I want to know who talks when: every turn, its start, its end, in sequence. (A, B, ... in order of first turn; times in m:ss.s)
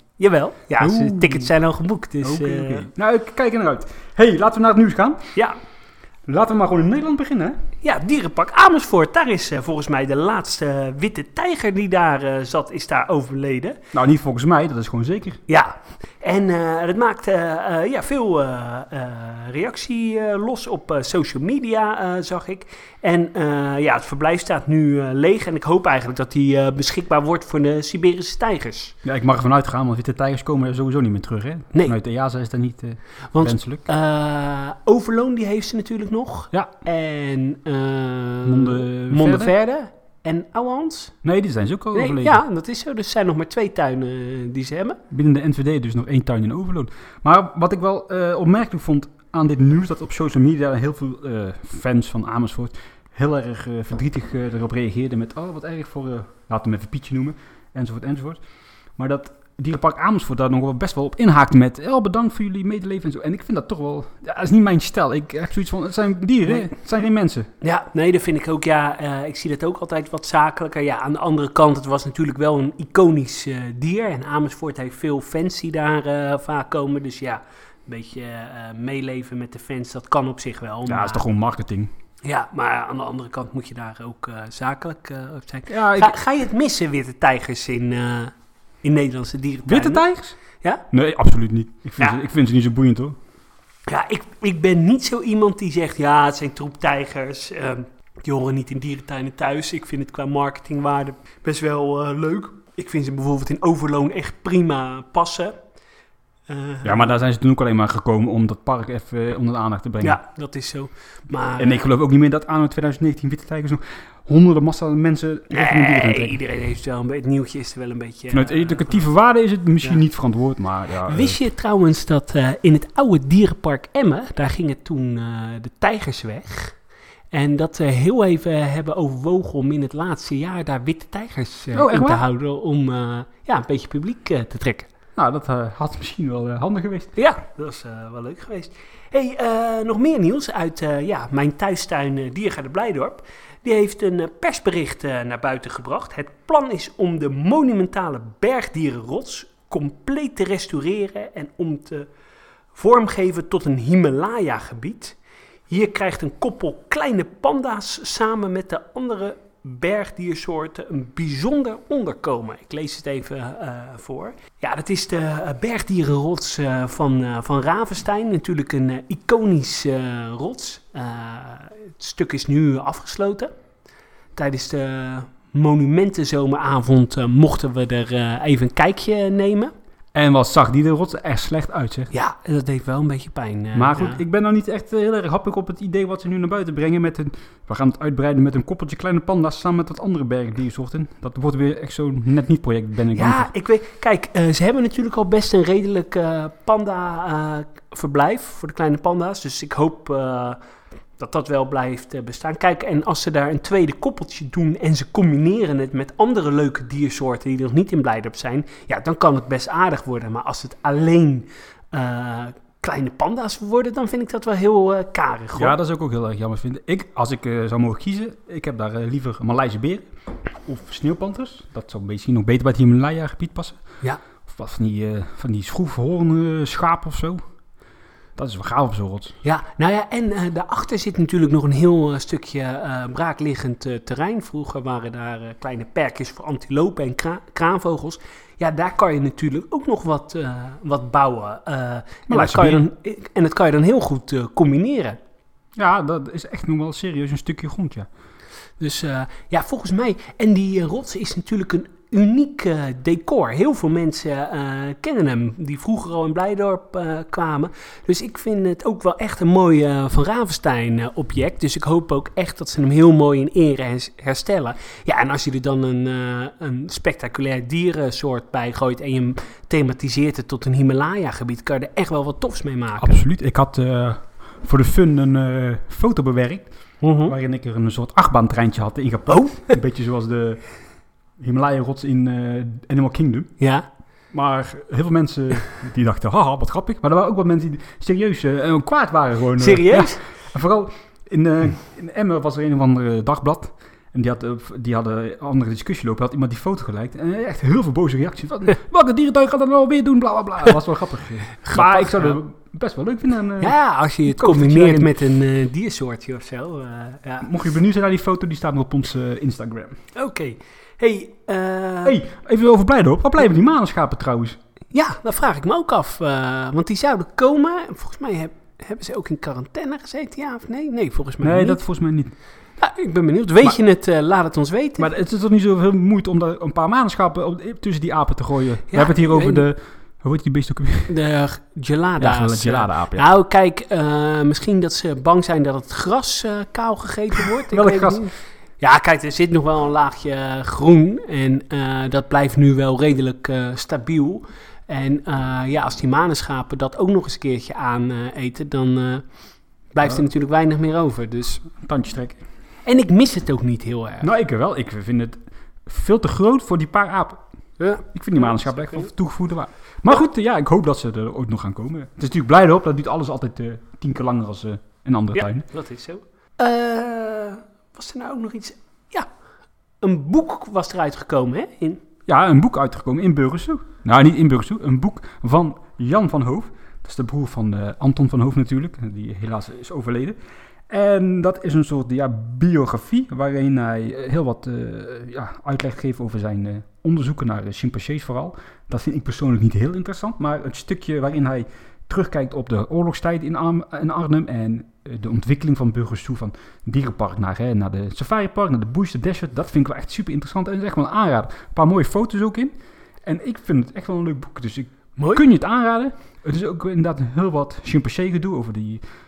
0:00.2-0:02.8 A
0:00.8-0:01.5 B
0:02.2-0:05.3 B
0:06.2-0:07.6 B
0:07.8-0:13.8 A
0:13.9-0:15.4 B
0:15.5-0:28.9 A
0:29.0-0:33.8 B
0:33.3-0:41.1 A
0:38.4-0:39.5 B
0:41.2-0:42.4 B
0:41.9-0:45.0 A
0:45.1-0:58.4 B
0:59.0-1:07.5 B
1:07.6-1:21.2 A
1:20.9-1:21.9 B
1:22.2-1:30.0 A
1:25.7-1:26.1 B
1:29.7-1:30.4 B
1:30.9-1:33.2 B
1:33.9-1:45.5 A
1:46.5-1:47.1 A
1:46.8-1:50.2 B
1:50.0-1:51.8 A
1:51.6-1:56.4 B
1:55.5-1:59.0 A
1:58.3-2:01.4 B
2:01.0-2:06.8 A
2:07.3-2:14.9 A
2:11.7-2:12.2 B
2:15.2-2:17.2 B
2:17.2-2:32.1 A
2:32.7-2:35.2 A
2:35.7-2:53.5 A
2:54.4-2:59.7 A
3:00.1-3:02.1 B
3:02.1-3:04.2 A
3:03.7-3:13.5 B
3:13.1-3:20.6 A
3:21.2-3:35.7 A
3:35.6-3:40.1 B
3:40.6-3:43.8 B
3:44.5-3:47.4 B
3:48.4-3:49.4 B
3:49.4-4:05.2 A
4:02.3-4:02.8 B
4:05.8-4:08.1 B
4:08.8-4:33.2 A
4:33.0-4:36.7 B
4:37.0-4:37.4 A
4:37.2-4:40.6 B
4:41.4-4:43.5 B
4:43.6-4:43.8 A
4:44.3-5:05.3 B
4:49.6-4:50.2 A
5:01.7-5:02.4 A
5:03.6-5:07.5 A
5:07.4-5:10.0 B
5:10.1-5:12.2 A
5:12.0-5:14.6 B
5:14.9-5:21.8 A
5:21.4-5:22.3 B
5:22.8-5:25.1 A
5:25.0-5:31.1 B
5:28.9-5:29.6 A
5:31.1-5:49.2 A
5:32.2-5:33.3 B
5:37.6-5:38.3 B
5:49.9-5:51.6 A
5:51.8-5:52.4 B
5:52.8-5:54.3 A
5:54.2-5:57.4 B
5:57.8-5:59.1 A
5:58.1-6:05.6 B
6:05.4-6:09.3 A
6:10.0-6:12.0 A
6:12.3-6:20.4 B
6:20.9-6:42.7 B
6:43.2-6:49.0 B